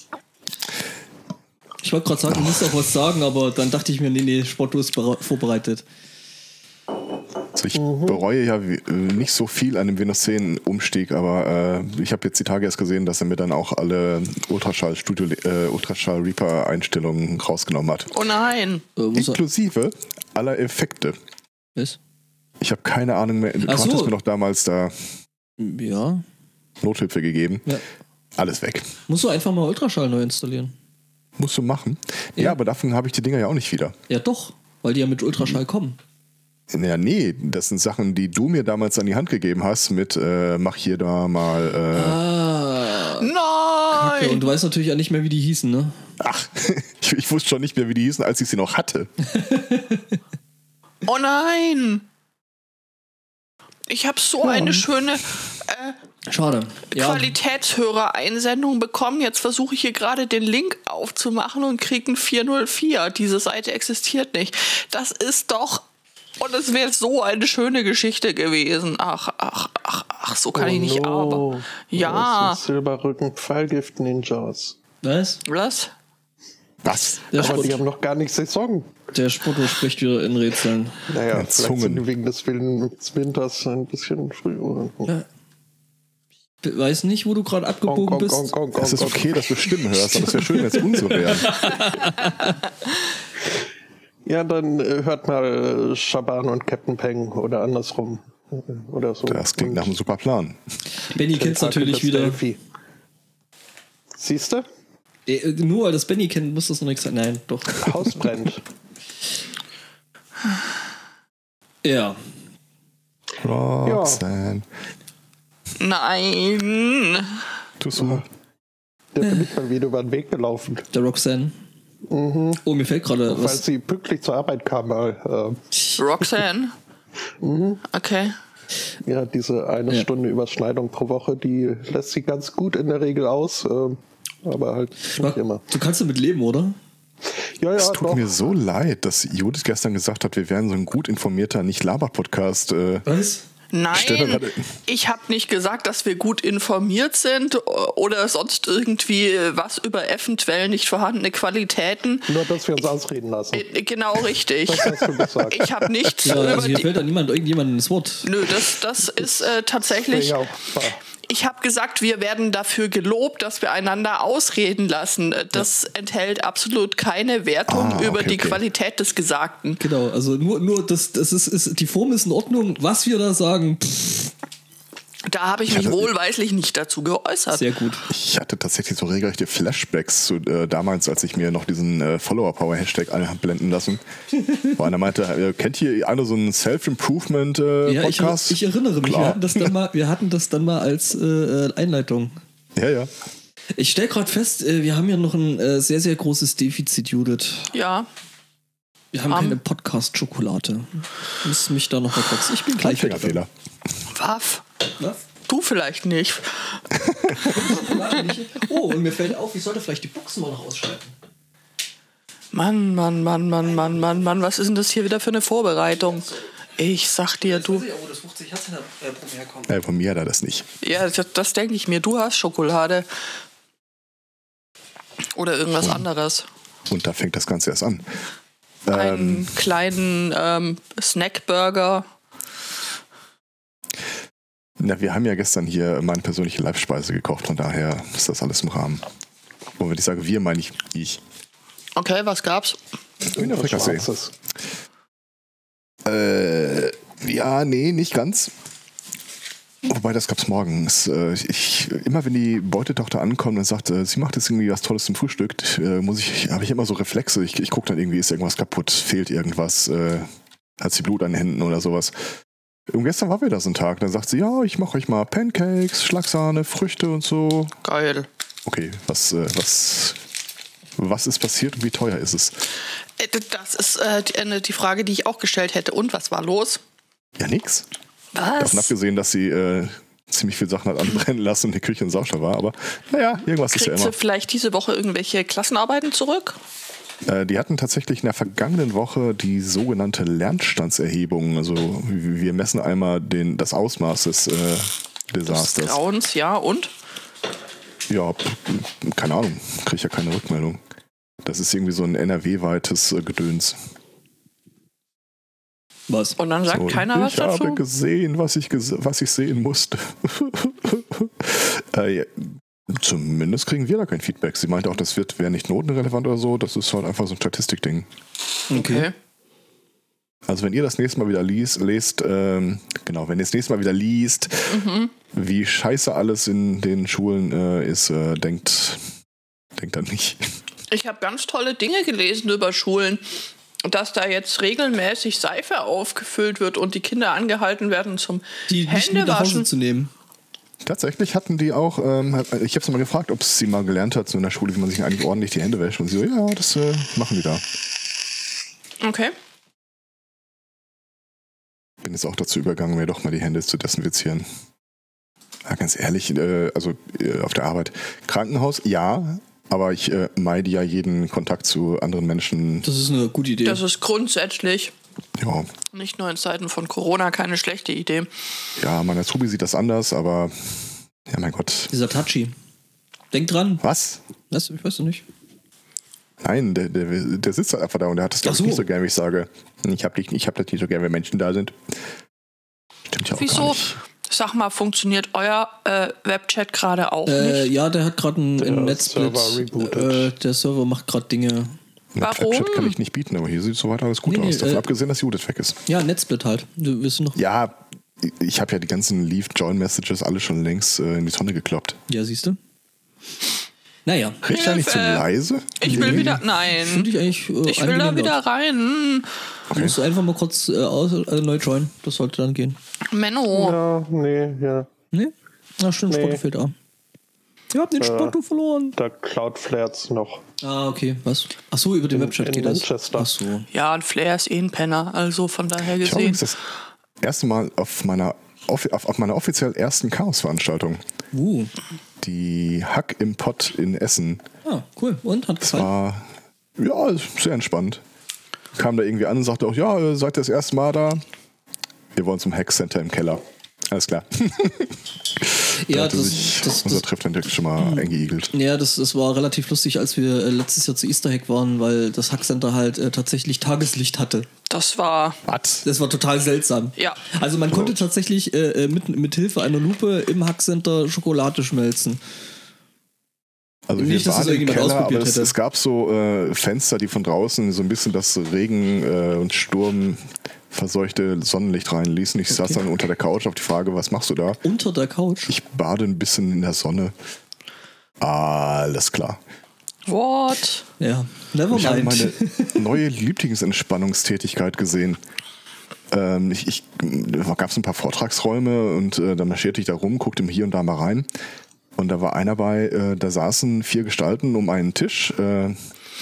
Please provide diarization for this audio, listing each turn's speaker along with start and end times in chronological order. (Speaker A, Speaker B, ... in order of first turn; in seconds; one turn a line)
Speaker A: 1.8-5.8
Speaker B: 7.5-18.1
Speaker C: 7.8-8.2
Speaker D: 18.1-18.8
Speaker A: 18.9-19.4
Speaker B: 19.1-21.1
Speaker B: 22.6-25.1
Speaker A: 23.6-24.1
Speaker A: 25.6-26.2
Speaker B: 26.8-27.7
Speaker B: 28.4-28.9
Speaker A: 29.1-30.7
Speaker B: 31.4-34.0
Speaker A: 34.1-36.0
Speaker B: 36.7-42.2
Speaker A: 41.9-43.3
Speaker D: 43.2-44.5
Speaker A: 43.9-46.0
Speaker B: 46.2-49.1
Speaker A: 49.2-50.2
Speaker D: 51.0-52.0
Speaker D: 53.9-56.0
Speaker C: 54.4-54.8
Speaker A: 56.3-57.3
Speaker D: 56.9-65.8
Speaker D: 66.4-72.6
Speaker C: 70.5-74.8
Speaker A: 75.0-75.4
Speaker D: 75.4-75.9
Speaker B: 76.8-77.3
Speaker A: 77.3-77.8
Speaker C: 77.3-78.9
Speaker A: 79.1-81.0
Speaker C: 81.1-85.1
Speaker B: 81.3-82.0
Speaker A: 86.6-88.5
Speaker C: 87.9-89.5
Speaker B: 88.8-91.6
Speaker A: 91.2-92.5
Speaker C: 94.2-99.9
Speaker B: 99.2-100.6
Speaker A: 101.1-102.4
Speaker C: 101.3-102.6
Speaker C: 104.2-104.7
Speaker A: 105.3-108.4
Speaker C: 107.8-108.6
Speaker A: 111.8-112.2
Speaker B: 113.4-114.7
Speaker C: 113.8-114.2
Speaker D: 115.8-117.4
Speaker B: 117.8-118.2
Speaker C: 118.0-118.2
Speaker C: 119.1-120.9
Speaker A: 119.2-119.5
Speaker A: 120.9-121.5
Speaker C: 122.1-122.6
Speaker A: 122.6-123.6
Speaker C: 123.3-125.6
Speaker D: 126.0-126.7
Speaker C: 127.4-127.8
Speaker D: 127.9-128.3
Speaker C: 129.0-135.6
Speaker A: 135.1-136.8
Speaker C: 137.6-138.4
Speaker B: 137.8-143.0
Speaker A: 143.1-143.4
Speaker D: 143.7-152.3
Speaker B: 143.9-144.7
Speaker C: 152.3-153.6
Speaker D: 153.5-157.0
Speaker C: 154.6-155.7
Speaker A: 156.2-158.3
Speaker D: 158.2-160.4
Speaker C: 160.1-161.0
Speaker D: 161.3-169.8
Speaker B: 167.7-168.6
Speaker A: 169.8-174.3
Speaker D: 175.3-177.7
Speaker B: 175.7-176.1
Speaker A: 177.5-178.1
Speaker B: 178.1-184.0
Speaker B: 184.7-189.7
Speaker A: 187.8-192.4
Speaker B: 192.8-193.1
Speaker A: 193.8-197.7
Speaker D: 197.7-198.1
Speaker A: 199.1-203.4
Speaker D: 199.3-199.6
Speaker B: 202.8-203.5
Speaker D: 204.1-204.6
Speaker D: 205.5-206.8
Speaker B: 207.0-207.5
Speaker A: 207.4-211.1
Speaker D: 212.5-217.8
Speaker A: 217.4-219.8
Speaker B: 219.7-220.7
Speaker D: 220.8-223.1
Speaker D: 225.3-226.4
Speaker B: 225.8-226.0
Speaker B: 226.9-228.1
Speaker B: 228.8-229.6
Speaker D: 228.9-232.0
Speaker B: 234.8-239.1
Speaker B: 239.8-241.2
Speaker D: 241.9-242.8
Speaker B: 243.3-244.1
Speaker C: 243.3-244.3
Speaker B: 246.0-248.5
Speaker B: 249.8-260.3
Speaker B: 260.8-262.1
Speaker B: 262.9-267.7
Speaker D: 267.8-268.3
Speaker B: 268.6-270.2
Speaker B: 270.9-272.6
Speaker D: 273.2-276.8
Speaker B: 277.4-277.9
Speaker D: 278.3-278.9
Speaker B: 278.6-284.1
Speaker D: 283.7-286.6
Speaker B: 287.2-296.0
Speaker D: 295.4-296.9
Speaker B: 298.1-300.8
Speaker B: 301.4-303.8
Speaker A: 306.1-306.4
Speaker D: 306.4-307.8
Speaker B: 306.7-318.1
Speaker A: 318.7-319.1
Speaker D: 318.7-319.1
Speaker B: 320.5-324.8
Speaker D: 324.7-325.1
Speaker B: 325.3-329.0
Speaker B: 329.8-330.5
Speaker D: 330.9-333.2
Speaker D: 333.8-339.7
Speaker A: 338.7-340.1
Speaker B: 340.8-347.6
Speaker D: 349.0-349.3
Speaker B: 352.0-354.4
Speaker B: 355.6-362.9
Speaker A: 362.8-363.8
Speaker D: 363.6-364.9
Speaker B: 365.4-365.7
Speaker D: 365.9-368.3
Speaker B: 368.8-371.9
Speaker A: 371.9-372.5
Speaker A: 373.3-373.8
Speaker B: 373.8-374.2
Speaker A: 374.5-375.2
Speaker B: 376.4-381.8
Speaker A: 378.4-378.9
Speaker B: 383.1-384.0
Speaker D: 383.3-387.7
Speaker A: 387.2-391.7
Speaker C: 388.6-390.3
Speaker B: 392.1-395.8
Speaker D: 392.2-392.9
Speaker A: 394.2-394.9
Speaker A: 395.9-397.4
Speaker B: 397.4-402.0
Speaker A: 402.1-402.6
Speaker A: 404.1-404.4
Speaker B: 404.4-406.4
Speaker D: 404.5-405.2
Speaker D: 405.8-407.1
Speaker A: 405.8-408.3
Speaker D: 407.6-409.3
Speaker B: 409.7-410.0
Speaker A: 409.7-412.8
Speaker D: 413.1-413.8
Speaker C: 413.5-414.9
Speaker A: 415.1-416.7
Speaker C: 416.1-416.4
Speaker A: 417.7-418.9
Speaker C: 418.0-418.3
Speaker C: 418.9-420.4
Speaker A: 420.6-423.7
Speaker C: 422.1-423.3
Speaker D: 423.7-426.4
Speaker B: 426.0-426.6
Speaker B: 427.2-431.0
Speaker A: 431.3-431.7
Speaker B: 432.2-434.4
Speaker A: 434.6-435.9
Speaker B: 435.6-438.0
Speaker B: 438.7-441.2
Speaker B: 442.1-448.5
Speaker A: 445.8-447.0
Speaker A: 447.8-454.5
Speaker D: 454.7-455.4
Speaker B: 455.4-455.8
Speaker A: 455.8-462.2
Speaker D: 457.0-457.3
Speaker B: 457.7-458.0
Speaker B: 463.9-474.6
Speaker A: 463.9-465.5
Speaker A: 472.5-472.8
Speaker A: 474.6-475.5
Speaker B: 475.5-477.1
Speaker B: 478.2-479.4
Speaker D: 480.1-480.8
Speaker A: 481.0-482.9
Speaker B: 481.7-485.2
Speaker B: 486.1-491.3
Speaker B: 491.9-495.8